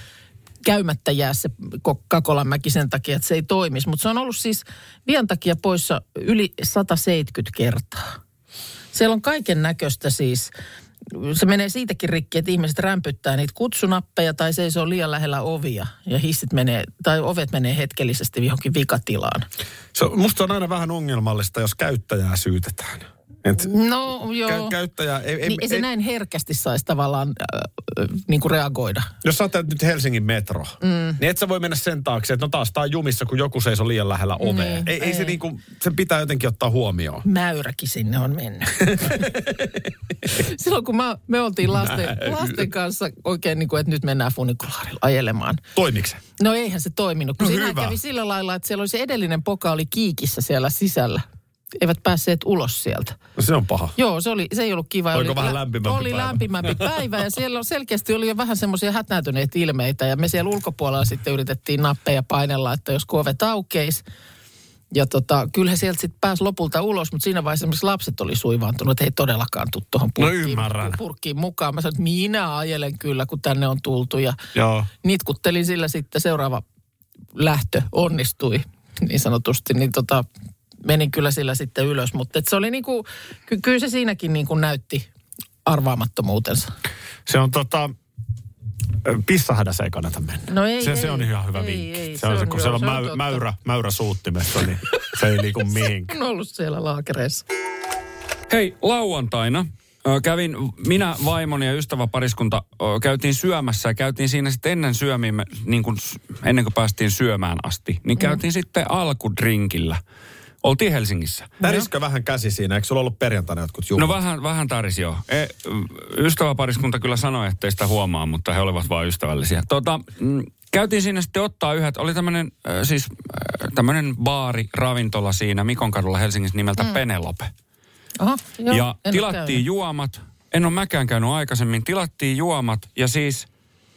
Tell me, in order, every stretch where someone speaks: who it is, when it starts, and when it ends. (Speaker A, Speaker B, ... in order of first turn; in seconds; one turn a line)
Speaker A: 0.7-8.2
Speaker A: 8.9-10.5
Speaker A: 11.1-19.5
Speaker B: 19.9-23.7
Speaker A: 23.5-24.8
Speaker B: 24.4-25.9
Speaker A: 25.4-29.1
Speaker B: 29.2-37.2
Speaker A: 30.8-31.2
Speaker A: 34.4-35.4
Speaker A: 37.2-39.3
Speaker B: 38.9-39.9
Speaker A: 40.2-45.6
Speaker B: 41.7-42.6
Speaker B: 45.8-46.2
Speaker A: 46.4-51.2
Speaker B: 47.4-48.0
Speaker A: 51.8-53.2
Speaker B: 53.4-54.0
Speaker A: 54.0-64.0
Speaker B: 55.1-56.9
Speaker A: 64.9-74.4
Speaker B: 70.2-71.0
Speaker B: 74.5-74.9
Speaker A: 75.0-76.6
Speaker A: 77.4-80.3
Speaker A: 80.8-85.1
Speaker A: 85.7-86.7
Speaker B: 87.3-87.9
Speaker B: 89.0-96.2
Speaker A: 90.5-93.4
Speaker A: 95.8-97.4
Speaker C: 98.5-110.0
Speaker C: 110.6-111.6
Speaker B: 111.6-114.2
Speaker C: 114.0-127.5
Speaker A: 128.2-129.6
Speaker C: 128.7-133.5